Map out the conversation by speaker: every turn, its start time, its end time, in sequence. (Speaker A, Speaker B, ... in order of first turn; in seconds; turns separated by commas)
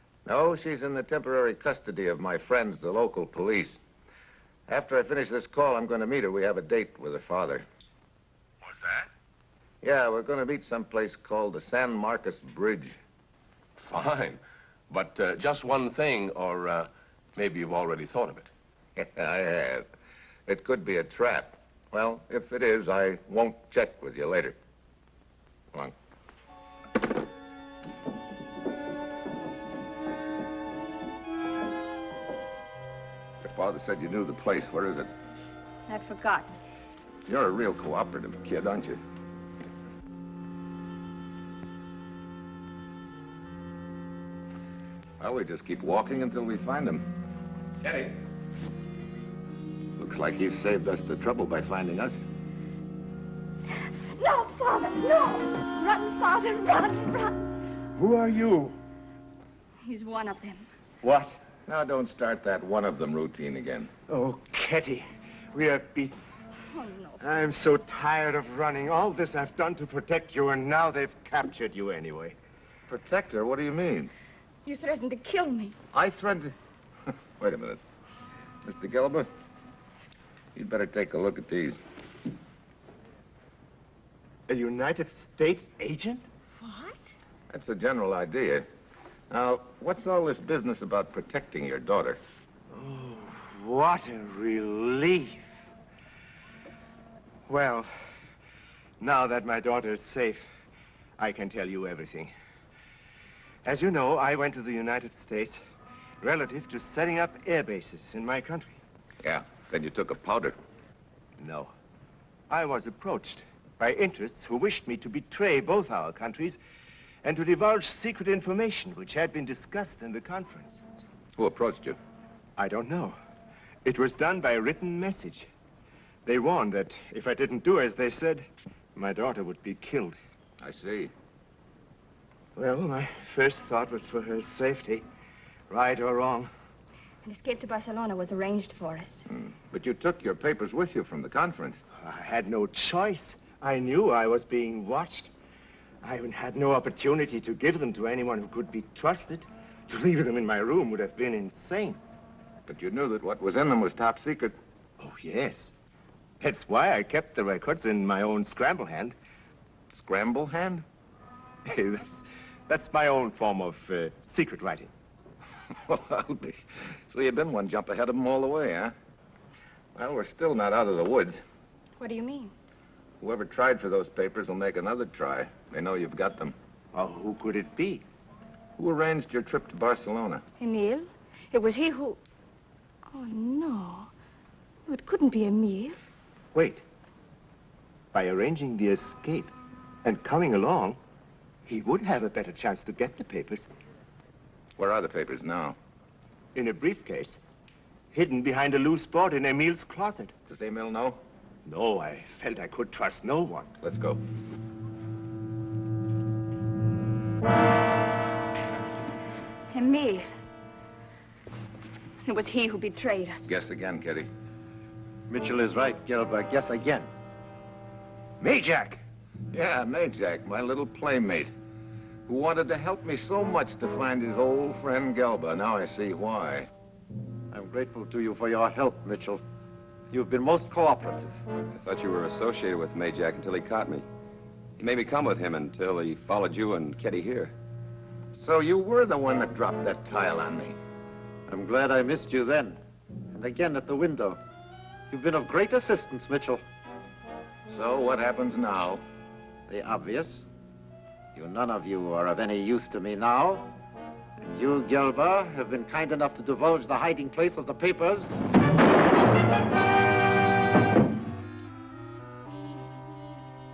Speaker A: 0.2-3.8, Speaker A: 4.7-7.6, Speaker B: 8.6-9.0, Speaker A: 9.8-13.0, Speaker B: 13.8-14.4, Speaker B: 14.9-18.5, Speaker A: 19.0-19.9, Speaker A: 20.5-24.6, Speaker A: 33.4-35.1, Speaker C: 35.9-36.5, Speaker A: 37.2-39.0, Speaker A: 45.2-47.1, Speaker A: 50.0-52.2, Speaker C: 54.1-57.4, Speaker D: 58.0-58.8, Speaker C: 59.8-60.7, Speaker D: 61.0-61.4, Speaker A: 61.6-63.9, Speaker D: 64.1-66.2, Speaker C: 66.7-67.2, Speaker D: 67.2-72.3, Speaker A: 72.9-74.1, Speaker C: 74.6-75.8, Speaker A: 75.9-76.5, Speaker A: 77.4-77.8, Speaker A: 78.6-79.3, Speaker A: 80.5-81.8, Speaker D: 84.5-86.2, Speaker C: 86.6-87.0, Speaker A: 87.5-88.7, Speaker A: 89.3-92.2, Speaker D: 92.7-95.5, Speaker D: 97.5-97.9, Speaker D: 99.0-100.5, Speaker D: 101.2-102.3, Speaker D: 103.6-105.6, Speaker D: 106.2-108.8, Speaker A: 109.2-110.5, Speaker D: 111.4-111.7, Speaker D: 112.5-116.6, Speaker D: 117.2-120.8, Speaker A: 121.3-122.0, Speaker D: 122.6-123.2, Speaker D: 123.8-125.5, Speaker D: 126.2-130.2, Speaker A: 130.6-131.1, Speaker D: 132.6-135.0, Speaker D: 135.7-136.5, Speaker C: 137.2-139.2, Speaker A: 139.3-141.8, Speaker D: 142.0-145.3, Speaker D: 146.0-152.0, Speaker A: 152.7-154.6, Speaker D: 155.0-155.7, Speaker D: 156.4-159.1, Speaker A: 159.9-160.8, Speaker D: 161.6-164.9, Speaker A: 165.7-168.9, Speaker A: 169.9-171.4, Speaker C: 172.0-172.5, Speaker A: 173.2-176.6, Speaker D: 176.9-178.0, Speaker A: 178.8-180.4, Speaker C: 180.6-182.2, Speaker C: 183.1-184.1, Speaker C: 184.9-186.0, Speaker D: 186.5-186.8, Speaker D: 188.1-189.5, Speaker D: 190.0-191.0, Speaker D: 191.6-193.7, Speaker A: 194.8-195.8, Speaker D: 196.5-197.4, Speaker D: 198.1-200.3, Speaker A: 200.5-201.2, Speaker D: 201.6-203.7, Speaker A: 203.8-204.2, Speaker C: 209.7-210.3, Speaker C: 212.2-213.5, Speaker A: 213.4-214.3, Speaker E: 215.3-217.1, Speaker D: 218.4-219.0, Speaker A: 219.5-221.5, Speaker A: 222.3-226.7, Speaker E: 227.5-229.4, Speaker E: 230.1-231.4, Speaker F: 231.7-234.1, Speaker F: 234.8-237.5, Speaker A: 238.3-240.8, Speaker E: 241.5-242.8, Speaker E: 243.3-244.4, Speaker E: 245.1-246.6, Speaker A: 247.7-249.0, Speaker E: 249.7-250.4, Speaker E: 251.3-253.7, Speaker E: 254.4-258.3